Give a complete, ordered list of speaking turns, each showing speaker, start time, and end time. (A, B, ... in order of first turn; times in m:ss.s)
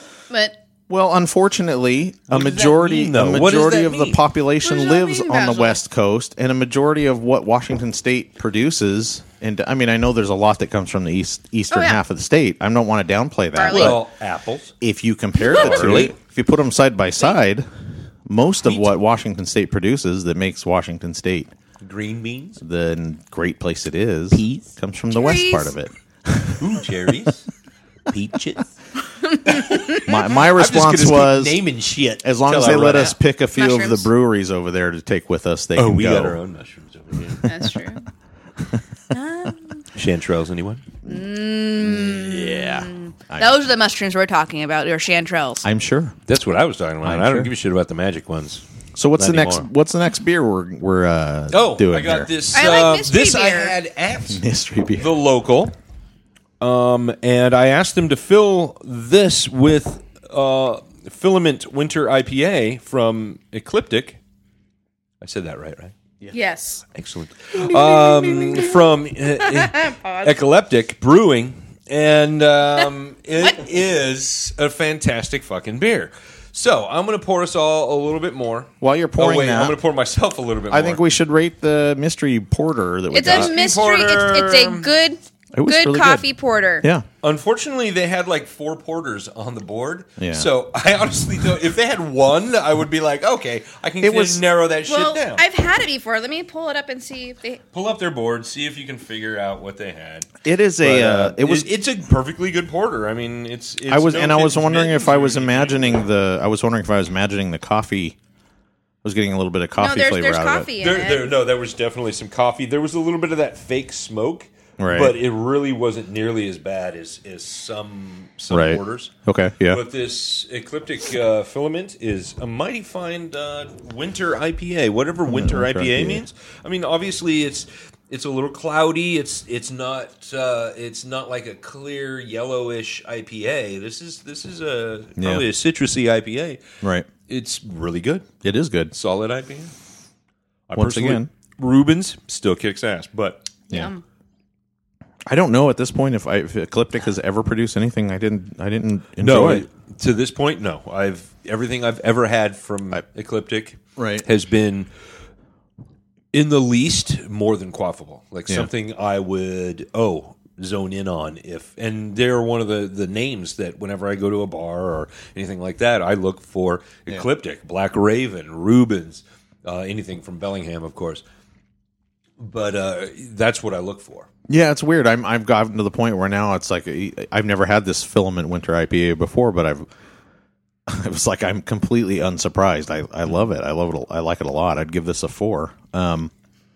0:00.3-0:00.6 A
0:00.9-0:14.0 B
0:02.3-0:04.2 C
0:04.6-0:05.8 A
0:11.7-0:12.0 A
0:13.6-0:14.0 A
0:13.6-0:14.8 C
0:14.8-0:17.7 B
0:15.4-0:16.0 A
0:15.5-0:16.2 C
0:18.3-0:21.5 B
0:18.6-0:18.9 C
0:21.8-0:22.6 C
0:22.6-0:26.9 B
0:24.3-0:24.7 C
0:25.1-0:25.8 A
0:26.6-0:27.5 C
0:28.1-0:28.7 C
0:29.2-0:30.1 A
0:30.0-0:31.6 B
0:30.4-0:33.2 C
0:32.2-0:36.4 B
0:33.6-0:34.1 A
0:35.8-0:37.5 C
0:37.4-0:37.7 B
0:37.4-0:38.0 A
0:39.1-0:39.8 A
0:40.0-0:40.8 C
0:41.0-0:45.6 A
0:41.8-0:43.7 B
0:45.6-0:46.2 B
0:46.3-0:48.6 C
0:47.0-0:47.5 B
0:49.0-0:52.3 B
0:49.2-0:49.7 C
0:51.5-0:55.8 C
0:52.5-0:53.8 A
0:54.3-0:55.1 B
0:56.6-1:04.2 C
1:05.2-1:05.9 C
1:06.3-1:06.8 A
1:07.0-1:21.0 C
1:07.6-1:08.7 A
1:09.4-1:10.4 A
1:18.8-1:19.8 B
1:20.7-1:23.5 B
1:23.1-1:26.9 A
1:23.2-1:24.9 C
1:25.5-1:26.3 B
1:27.2-1:35.4 C
1:30.2-1:30.5 B
1:34.0-1:34.4 B
1:34.9-1:37.6 A
1:37.7-1:46.0 C
1:40.4-1:41.7 B
1:43.9-1:48.2 B
1:49.0-1:50.7 B
1:49.8-1:51.3 A
1:50.8-1:59.1 C
1:54.8-1:55.2 B
1:58.5-1:59.8 B
1:59.7-2:16.6 C
2:05.3-2:06.2 B
2:15.2-2:15.5 B
2:16.8-2:17.1 B
2:17.3-2:18.3 C
2:18.4-2:18.9 B
2:18.9-2:19.7 C
2:20.7-2:23.5 C
2:20.7-2:21.3 B
2:23.7-2:24.0 A
2:25.3-2:29.7 B
2:29.2-2:34.9 C
2:34.0-2:34.3 B
2:36.3-2:51.2 C
2:52.4-2:54.3 C
2:54.5-2:59.9 B
3:00.9-3:06.3 B